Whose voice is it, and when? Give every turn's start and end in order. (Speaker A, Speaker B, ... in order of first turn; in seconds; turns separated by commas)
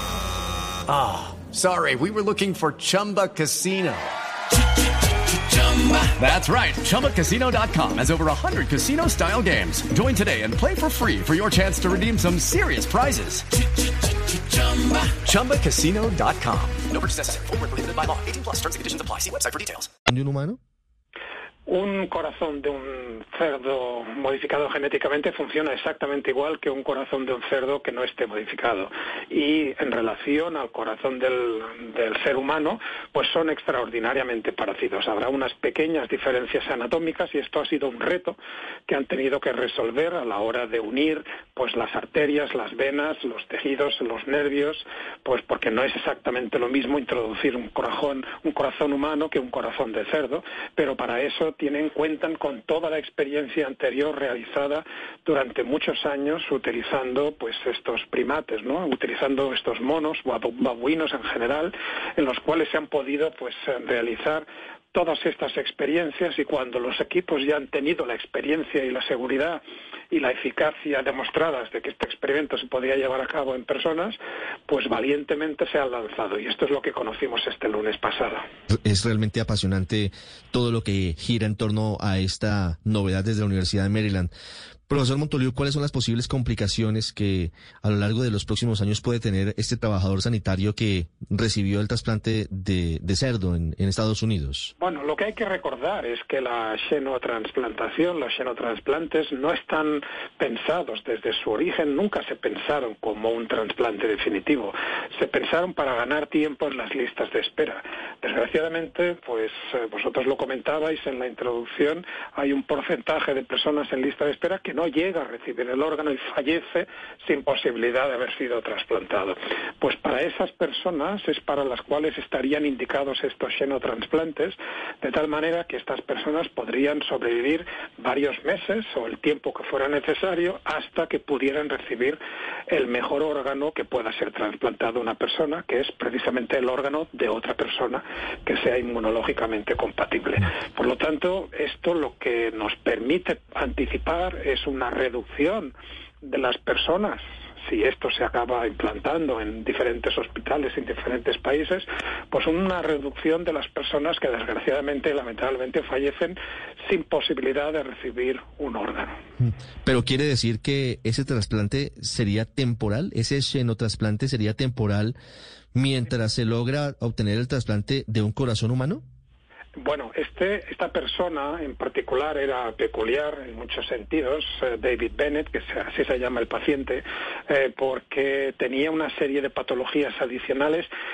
Speaker A: 0.9-4.1, Speaker A: 5.5-13.5, Speaker A: 14.7-16.8, Speaker B: 16.9-19.9, Speaker C: 20.1-20.6, Speaker D: 21.7-38.4, Speaker D: 38.9-69.6, Speaker D: 70.1-78.4, Speaker C: 78.7-84.3, Speaker C: 84.9-94.7, Speaker D: 94.8-159.2, Speaker C: 159.4-165.2, Speaker C: 165.7-169.0, Speaker D: 169.8-180.9